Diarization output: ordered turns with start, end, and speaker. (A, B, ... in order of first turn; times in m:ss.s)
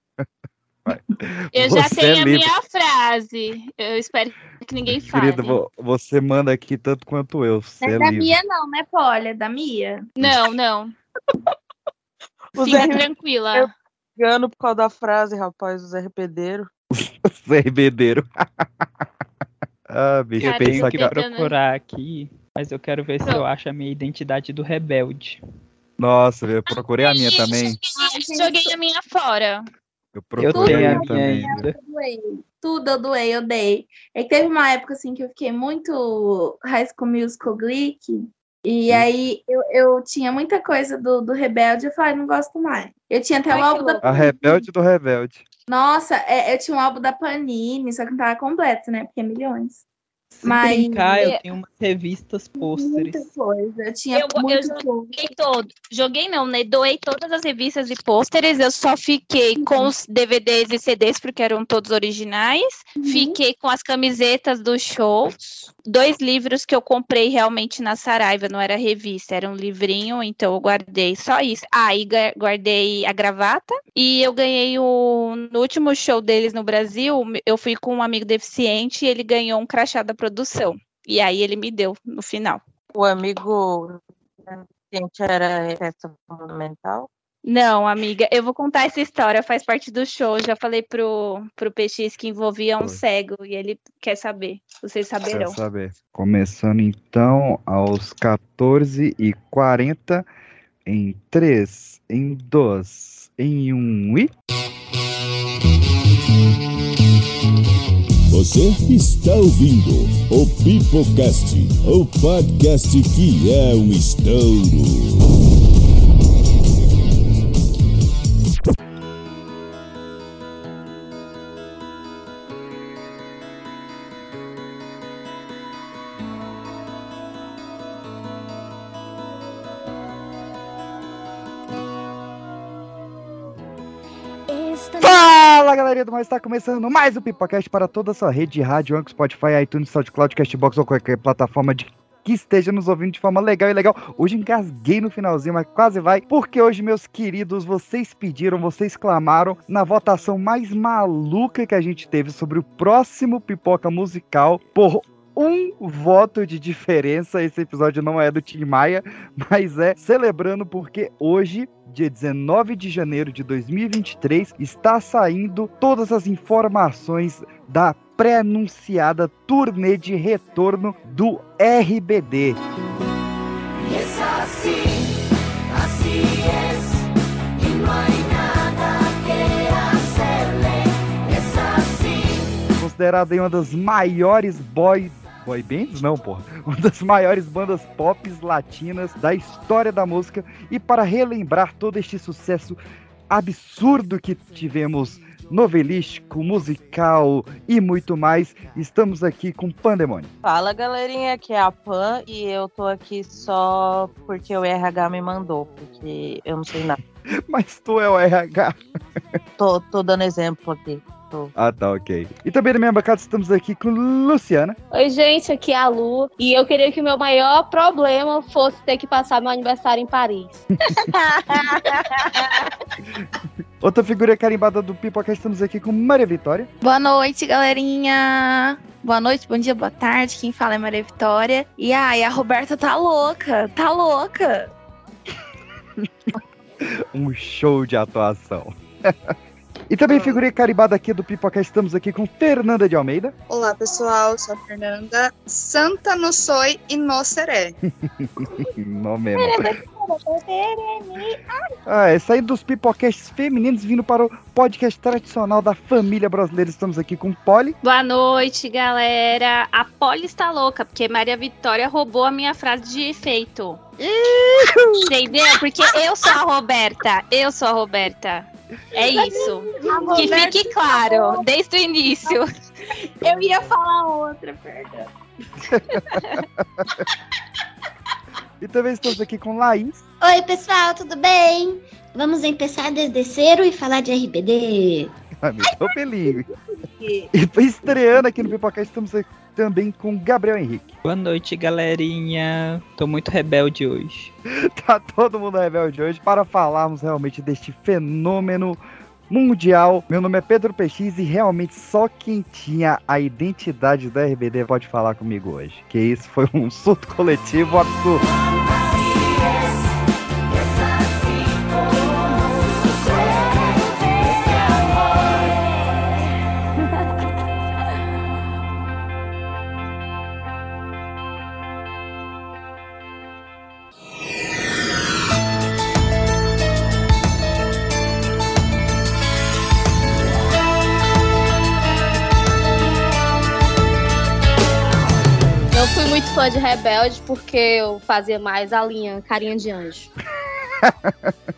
0:01.5-0:02.5 A
0:01.5-0:05.6 B
0:04.9-0:08.3 A
0:07.8-0:10.1 C
0:10.2-0:11.0 B
0:12.6-0:16.7 D
0:12.6-0:13.7 B
0:16.9-0:19.0 A
0:19.9-0:21.2 A
0:20.4-0:25.4 E
0:20.4-0:21.5 B
0:26.0-0:27.8 A
0:26.7-0:29.7 B
0:28.0-0:28.7 C
0:30.1-0:31.6 A
0:30.4-0:31.8 E
0:30.5-0:44.6 C
0:43.5-0:44.0 B
0:44.0-0:45.4 A
0:45.7-0:49.8 C
0:50.3-0:53.2 E
0:50.4-0:51.2 C
0:52.6-0:55.2 C
0:54.1-1:22.6 B
0:59.6-0:59.9 C
1:03.0-1:03.4 C
1:22.9-1:27.1 D
1:27.4-1:35.6 B
1:35.3-1:40.3 A
1:40.9-1:44.3 A
1:48.3-1:55.2 F
2:14.5-2:15.0 G
2:15.0-2:52.6 A
3:02.8-3:12.8 A
3:13.3-3:20.3 A
3:20.4-3:27.0 D
3:27.3-3:28.8 A
3:29.6-3:31.5 D
3:31.6-3:34.8 A
3:34.9-3:40.6 H
3:41.1-3:42.7 B
3:43.8-3:46.7 A
3:46.8-3:54.7 C
3:56.9-3:59.3 A
3:59.9-4:03.4 A
4:00.1-4:00.4 I
4:03.5-4:07.8 I
4:08.0-4:09.7 A
4:09.4-4:11.7 C
4:11.9-4:17.8 A
4:17.8-4:23.8 B
4:25.0-4:32.5 B
4:29.0-4:31.4 C
4:33.2-4:35.1 C
4:35.7-4:37.0 A
4:38.6-4:40.0 A
4:40.2-4:45.1 G
4:45.4-4:46.5 A
4:45.7-4:47.3 C
4:47.3-4:51.0 A
4:51.0-4:54.3 E
4:54.6-5:08.2 A
5:35.7-5:40.1 H
5:40.8-5:41.4 A